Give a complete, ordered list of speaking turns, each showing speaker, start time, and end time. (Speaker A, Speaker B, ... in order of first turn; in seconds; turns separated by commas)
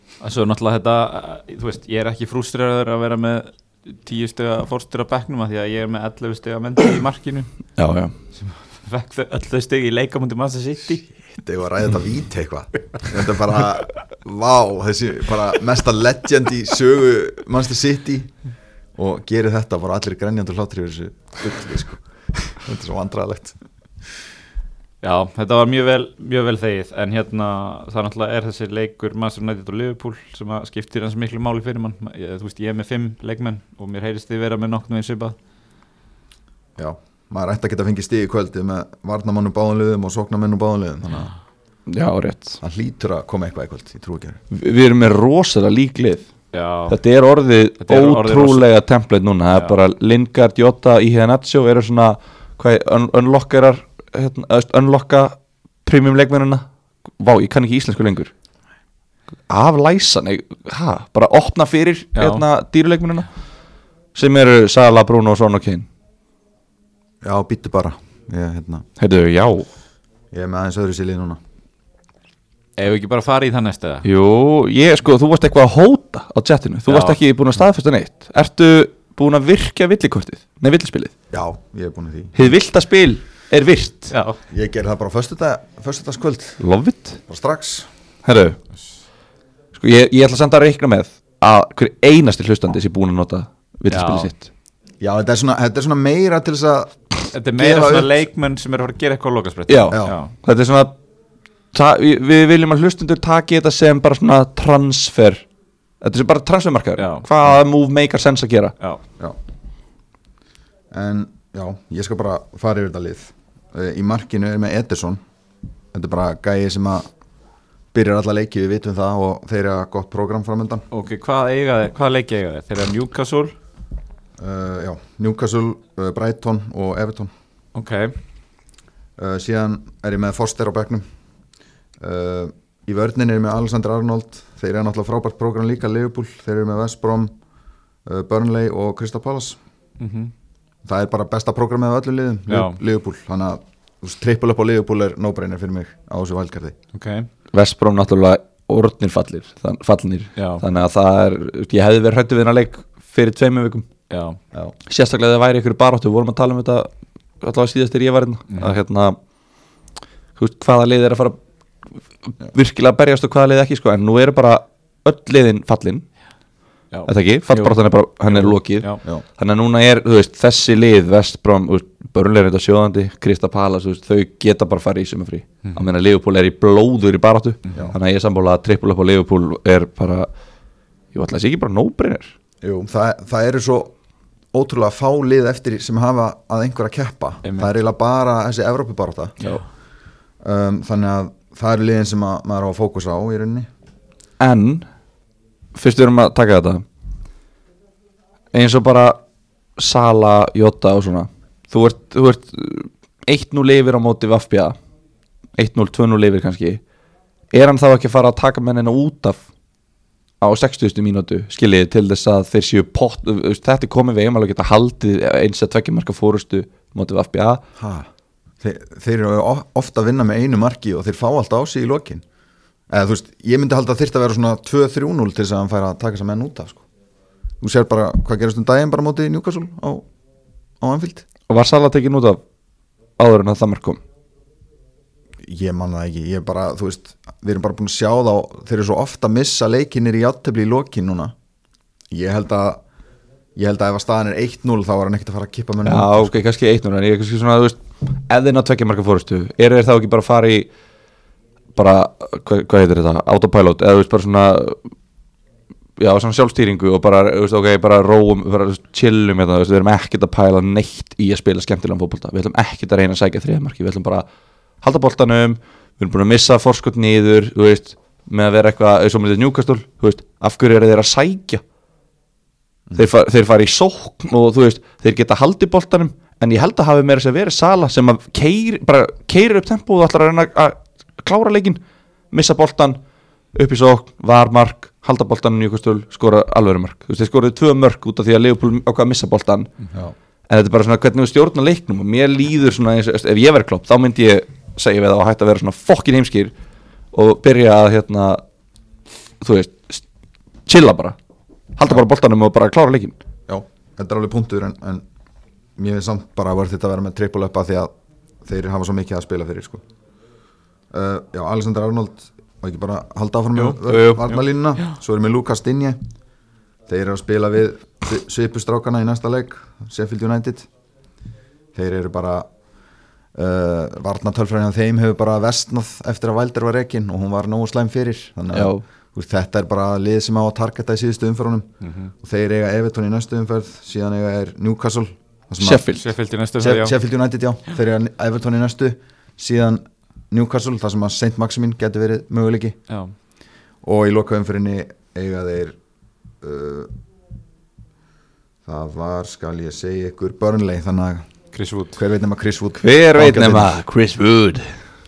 Speaker A: 0.2-7.5, Speaker B: 7.8-8.1, Speaker A: 8.3-11.0, Speaker C: 11.4-23.6, Speaker A: 25.0-35.4, Speaker C: 36.8-41.3, Speaker B: 41.9-42.6, Speaker C: 42.6-44.4, Speaker B: 44.5-46.3, Speaker A: 46.5-47.0, Speaker B: 46.9-56.6, Speaker A: 47.8-48.6, Speaker B: 57.2-58.3, Speaker B: 59.5-63.3, Speaker A: 62.1-62.4, Speaker B: 64.1-65.9, Speaker C: 67.2-68.8, Speaker B: 69.0-69.7, Speaker C: 70.3-71.4, Speaker A: 72.8-74.0, Speaker B: 74.0-81.1, Speaker A: 76.8-77.2, Speaker C: 81.3-82.3, Speaker B: 82.3-84.1, Speaker A: 84.1-84.4, Speaker C: 84.5-86.6, Speaker B: 86.6-87.2, Speaker C: 87.3-87.9, Speaker B: 88.2-88.6, Speaker B: 89.7-94.4, Speaker A: 93.9-94.3, Speaker C: 95.0-98.2, Speaker A: 97.3-100.3, Speaker B: 99.7-100.9, Speaker B: 101.7-105.5, Speaker B: 106.0-108.8, Speaker A: 107.0-107.3, Speaker C: 110.9-115.2, Speaker C: 115.9-117.1, Speaker C: 117.9-120.8, Speaker A: 120.9-123.5, Speaker C: 124.4-127.3, Speaker A: 127.7-128.2, Speaker C: 129.2-131.0, Speaker C: 132.0-137.3, Speaker C: 138.0-139.6, Speaker A: 140.0-140.3, Speaker C: 140.8-146.7, Speaker A: 142.5-142.8, Speaker A: 146.9-147.3, Speaker B: 147.5-153.9, Speaker A: 150.3-150.6, Speaker A: 154.1-154.4, Speaker B: 154.9-156.9, Speaker B: 157.4-159.2, Speaker A: 158.5-158.8, Speaker B: 160.3-161.4, Speaker B: 162.2-166.0, Speaker A: 166.9-169.0, Speaker B: 167.1-180.3, Speaker B: 181.1-182.3, Speaker C: 182.6-183.9, Speaker C: 184.5-189.4, Speaker A: 187.4-187.7, Speaker C: 190.4-193.7, Speaker B: 194.4-194.8, Speaker B: 195.7-196.8, Speaker B: 198.5-199.2, Speaker B: 199.8-204.8, Speaker B: 205.6-206.8, Speaker B: 207.5-209.4, Speaker B: 210.4-217.6, Speaker C: 217.8-218.1, Speaker C: 218.6-222.2, Speaker C: 222.9-226.8, Speaker C: 227.6-230.0, Speaker C: 230.8-231.2, Speaker B: 231.5-232.4, Speaker B: 233.2-234.0, Speaker C: 235.4-241.3, Speaker C: 242.1-242.8, Speaker C: 243.6-246.3, Speaker B: 245.8-250.7, Speaker B: 251.7-254.8, Speaker B: 256.0-264.2, Speaker B: 264.8-271.6, Speaker B: 272.9-283.0, Speaker B: 283.5-289.7, Speaker B: 290.5-296.5, Speaker B: 297.1-298.4, Speaker B: 299.4-300.0, Speaker B: 300.6-301.2, Speaker B: 301.8-303.2, Speaker C: 303.5-305.0, Speaker C: 305.8-307.9, Speaker C: 308.4-309.8, Speaker C: 310.9-316.0, Speaker A: 313.5-314.9, Speaker B: 313.9-314.3, Speaker C: 316.9-320.7, Speaker C: 321.7-322.5, Speaker C: 323.3-331.7, Speaker B: 328.5-328.8, Speaker A: 331.8-332.1, Speaker C: 332.2-335.8, Speaker B: 335.6-336.0, Speaker A: 336.0-336.9, Speaker C: 336.6-342.8, Speaker A: 342.9-343.1, Speaker C: 343.8-345.8, Speaker C: 346.4-346.9, Speaker C: 348.6-351.2, Speaker A: 351.5-352.0, Speaker C: 351.9-353.8, Speaker B: 352.8-354.7